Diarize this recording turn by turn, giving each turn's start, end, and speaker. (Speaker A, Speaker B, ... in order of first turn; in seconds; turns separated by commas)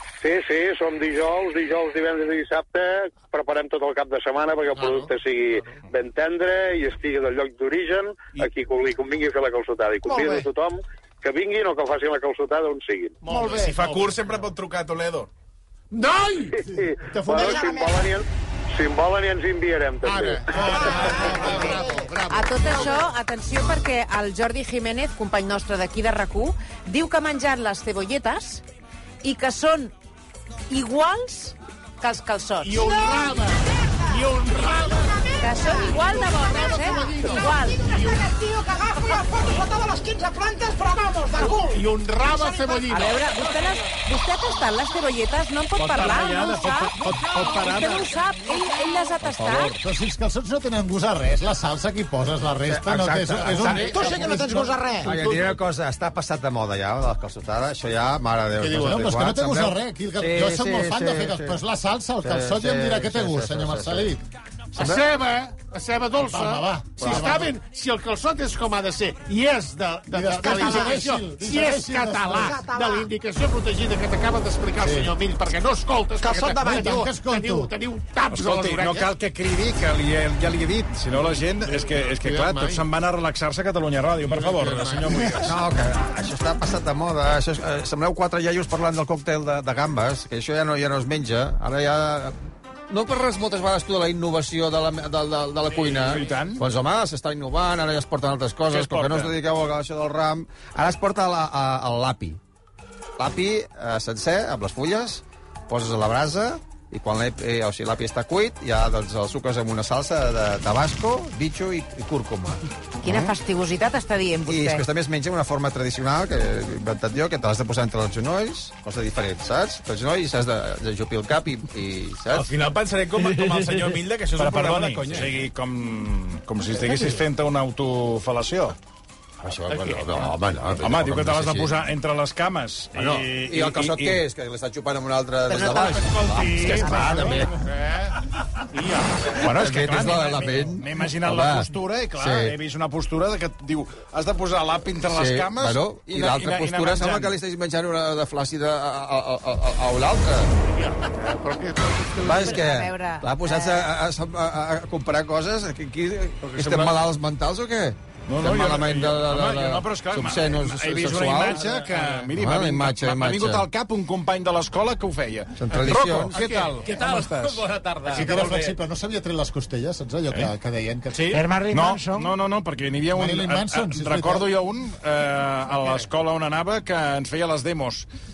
Speaker A: 0.2-13.2, Speaker B: 4.7-5.8, Speaker C: 10.1-10.4, Speaker B: 13.2-14.3, Speaker C: 13.3-13.6, Speaker D: 13.4-15.3, Speaker B: 15.9-17.9, Speaker A: 16.5-20.9, Speaker C: 17.3-18.1, Speaker B: 20.0-23.1, Speaker C: 20.6-22.1, Speaker E: 20.8-28.6, Speaker E: 29.2-29.9, Speaker E: 30.7-32.8, Speaker B: 32.6-38.3, Speaker C: 32.7-43.2, Speaker E: 35.4-37.8, Speaker B: 41.4-43.3, Speaker E: 42.9-49.8, Speaker F: 45.9-48.0, Speaker B: 46.0-48.2, Speaker G: 49.3-49.6, Speaker H: 49.8-54.7, Speaker G: 52.7-54.2, Speaker F: 53.6-53.8, Speaker C: 53.8-55.2, Speaker G: 55.0-61.6, Speaker B: 58.6-58.9, Speaker H: 58.7-64.2, Speaker G: 62.2-64.1, Speaker G: 64.7-65.0, Speaker B: 64.8-79.1, Speaker H: 66.2-67.5, Speaker G: 67.0-67.3, Speaker H: 70.1-72.5, Speaker C: 70.4-71.0, Speaker C: 72.4-73.1, Speaker H: 74.8-75.1, Speaker C: 76.2-77.2, Speaker H: 76.6-77.7, Speaker F: 78.3-85.6, Speaker B: 81.7-82.8, Speaker B: 84.2-85.5, Speaker G: 85.4-92.3, Speaker G: 92.9-102.4, Speaker B: 95.7-96.6, Speaker F: 96.0-96.6, Speaker D: 98.8-99.3, Speaker G: 103.2-113.3, Speaker E: 113.0-114.8, Speaker G: 114.5-122.5, Speaker D: 122.3-125.3, Speaker F: 124.4-128.8, Speaker G: 129.4-131.7, Speaker B: 129.7-130.3, Speaker F: 130.8-134.2, Speaker G: 132.9-137.5, Speaker B: 135.6-138.1, Speaker F: 135.9-137.7, Speaker B: 138.7-139.3, Speaker F: 139.3-147.4, Speaker G: 139.4-142.5, Speaker G: 145.1-150.5, Speaker B: 150.7-152.7, Speaker G: 152.2-161.6, Speaker E: 152.2-153.9, Speaker F: 156.4-157.1, Speaker F: 158.3-167.7, Speaker B: 161.3-162.2, Speaker G: 162.3-163.6, Speaker G: 165.6-166.4, Speaker B: 165.8-168.7, Speaker D: 166.3-168.6, Speaker H: 168.1-171.4, Speaker D: 171.1-171.4, Speaker C: 171.3-172.3, Speaker F: 171.7-178.1, Speaker H: 173.1-174.5